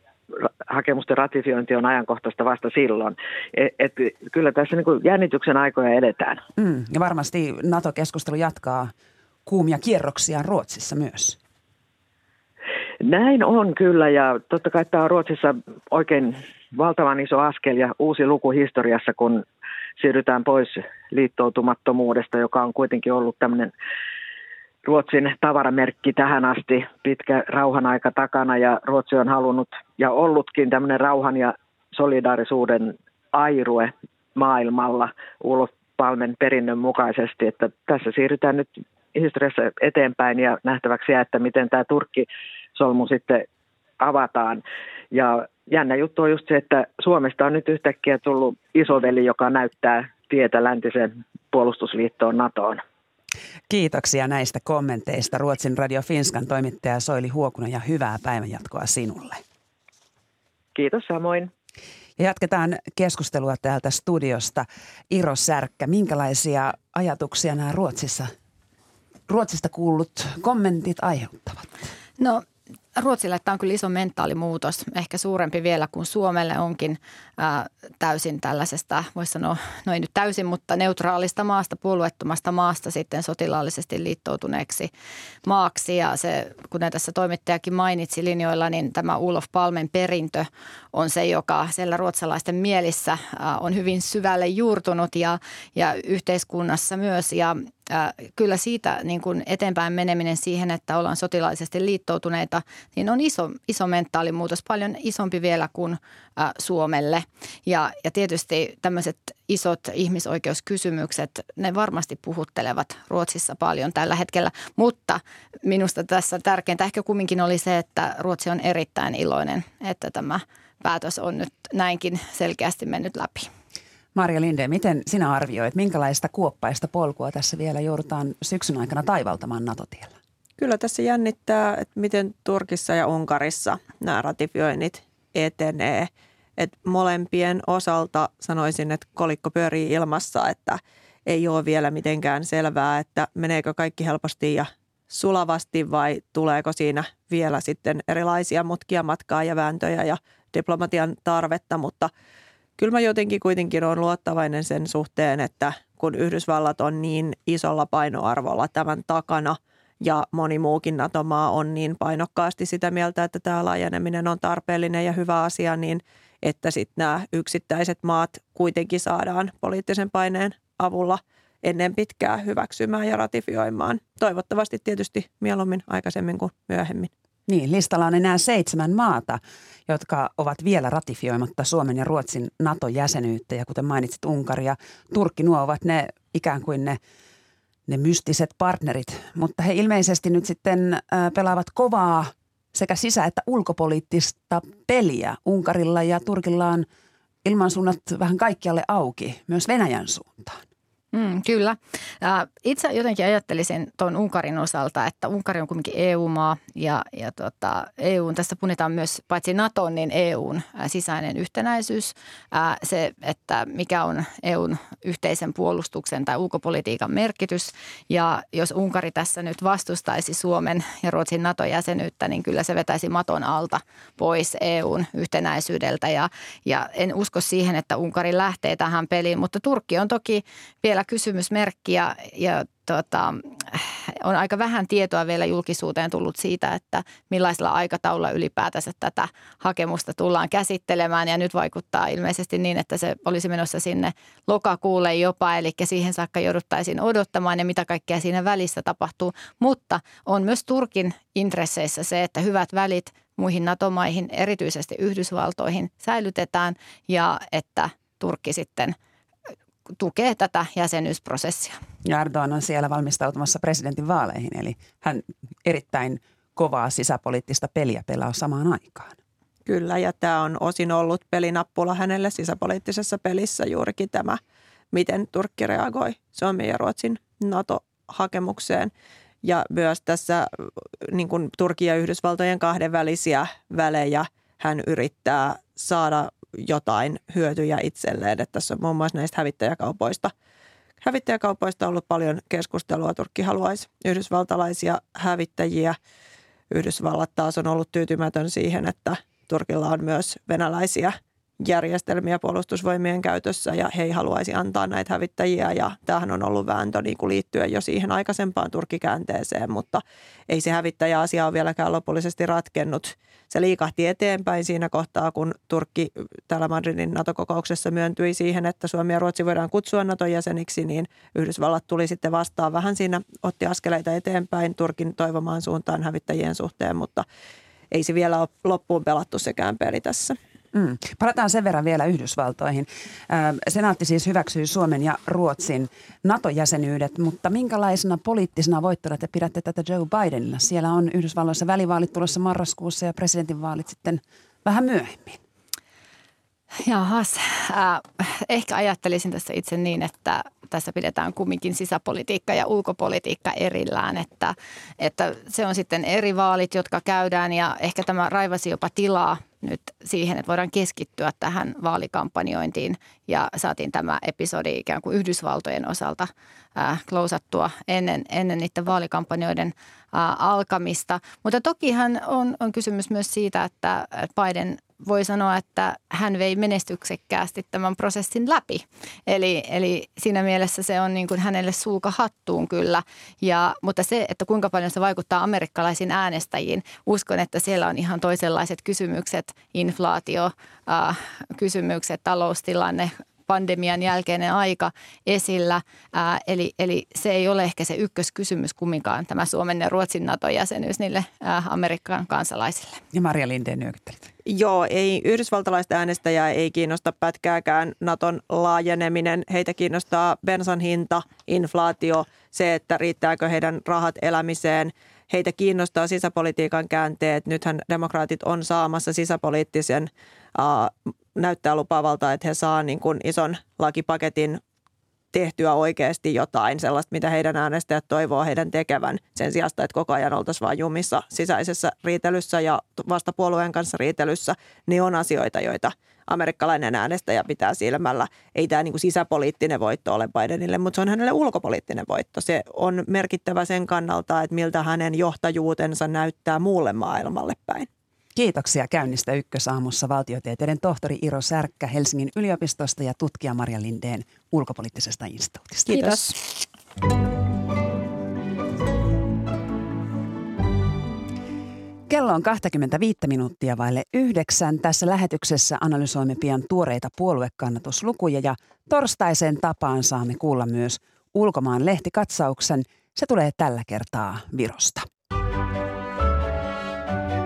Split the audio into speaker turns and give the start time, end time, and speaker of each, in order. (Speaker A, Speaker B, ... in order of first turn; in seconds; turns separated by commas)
Speaker A: 0.7-6.4, Speaker B: 6.6-8.9, Speaker B: 9.4-11.4, Speaker A: 13.0-19.4, Speaker A: 20.0-23.7, Speaker A: 24.8-43.4, Speaker A: 44.0-52.8, Speaker B: 53.7-59.4, Speaker A: 60.7-61.5, Speaker B: 62.2-68.3, Speaker B: 69.3-71.8, Speaker C: 72.2-72.4, Speaker C: 73.0-84.9, Speaker C: 85.5-123.5, Speaker B: 124.1-130.1, Speaker D: 130.6-152.1, Speaker D: 152.8-177.1, Speaker B: 177.5-187.0, Speaker B: 187.9-196.9, Speaker B: 197.4-200.6, Speaker C: 201.1-258.9, Speaker C: 260.0-261.8, Speaker B: 262.0-269.1, Speaker D: 269.6-274.4, Speaker D: 274.9-278.9, Speaker D: 279.4-290.3, Speaker D: 291.0-296.0, Speaker D: 296.7-327.2, Speaker D: 327.9-330.4, Speaker B: 330.7-345.4, Speaker C: 346.9-403.0, Speaker B: 403.1-404.3, Speaker D: 404.4-424.6, Speaker D: 425.3-447.9, Speaker B: 448.3-456.2, Speaker B: 462.1-475.1